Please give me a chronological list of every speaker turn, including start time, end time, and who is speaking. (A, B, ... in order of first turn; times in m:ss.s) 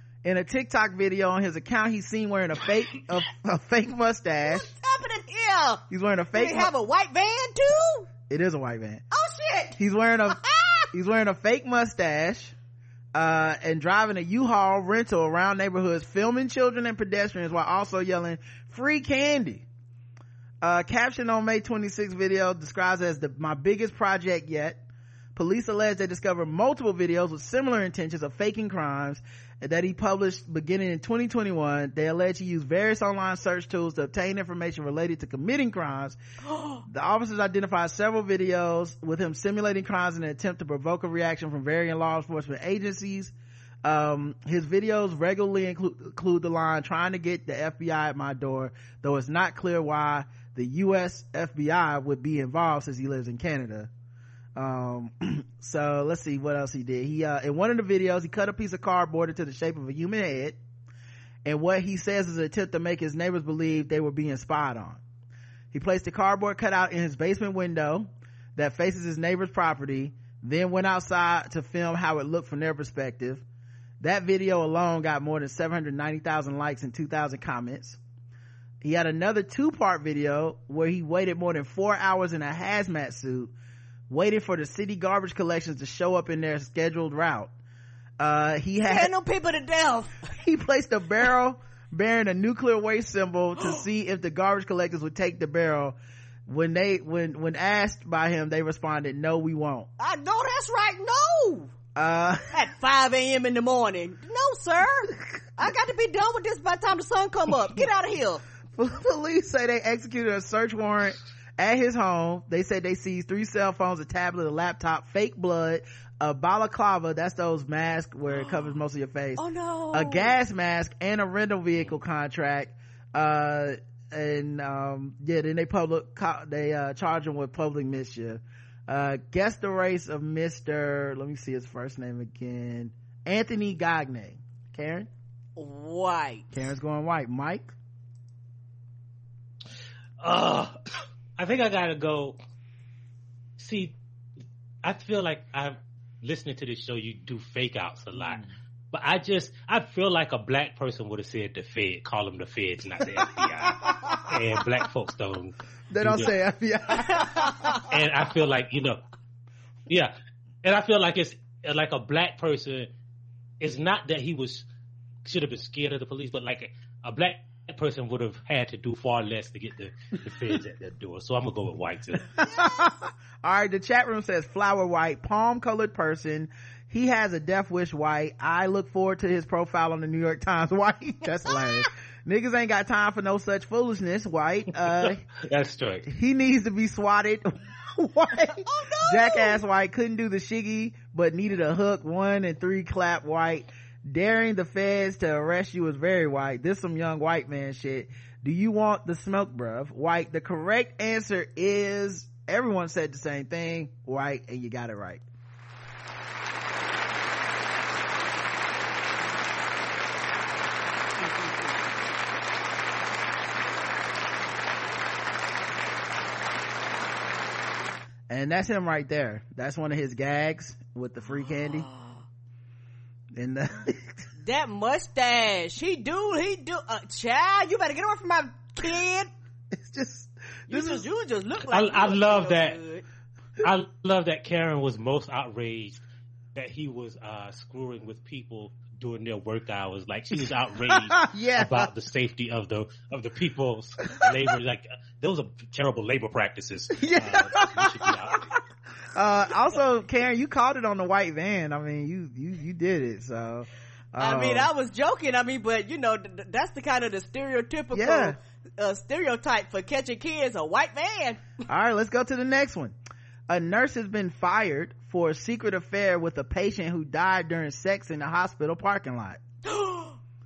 0:00.2-0:04.7 A
0:04.4-0:08.1 B
0:05.9-0:06.7 A
0:08.3-0:09.0 A
0:09.1-0:10.9 B
0:09.8-0:10.4 A
0:10.9-0:12.5 A
0:13.2-0:19.6 A
0:20.6-0:24.8 A
0:25.4-0:36.2 A
0:36.5-0:36.8 B
0:36.8-0:53.9 A
0:54.6-1:00.6 A
1:01.4-1:05.0 A
1:05.7-1:13.4 A
1:14.0-1:18.0 A
1:18.8-1:23.5 A
1:24.1-1:27.5 A
1:28.2-1:29.1 A
1:28.8-1:30.3 B
1:30.4-1:36.0 A
1:36.5-1:39.9 A
1:40.0-1:41.7 B
1:42.0-1:42.6 A
1:42.5-1:48.4 B
1:48.8-2:15.1 A
1:59.4-2:00.4 B
2:15.6-2:16.7 B
2:16.5-2:17.7 A
2:20.2-2:20.8 C
2:21.4-2:22.4 C
2:23.6-2:24.0 C
2:24.8-2:36.3 C
2:28.2-2:28.5 A
2:33.2-2:34.4 A
2:35.9-2:37.8 A
2:37.1-2:37.7 B
2:37.7-2:39.0 C
2:39.9-2:42.9 C
2:43.6-2:44.7 C
2:45.2-2:52.3 C
2:52.4-3:05.2 A
2:52.5-2:52.9 B
3:01.5-3:01.8 B
3:05.0-3:06.1 C
3:06.1-3:25.2 A
3:08.6-3:09.6 B
3:38.3-3:41.9 A
3:43.4-3:44.2 A
3:44.4-3:49.3 B
3:49.7-3:51.1 A
3:50.7-3:53.0 B
3:51.7-3:52.8 C
3:53.6-3:56.0 C
3:56.6-4:08.4 C
4:00.9-4:01.9 A
4:07.0-4:08.4 A
4:09.1-4:14.7 A
4:14.2-4:21.4 B
4:17.9-4:18.4 A
4:21.7-4:23.0 A
4:23.5-4:29.4 A
4:29.6-4:30.2 B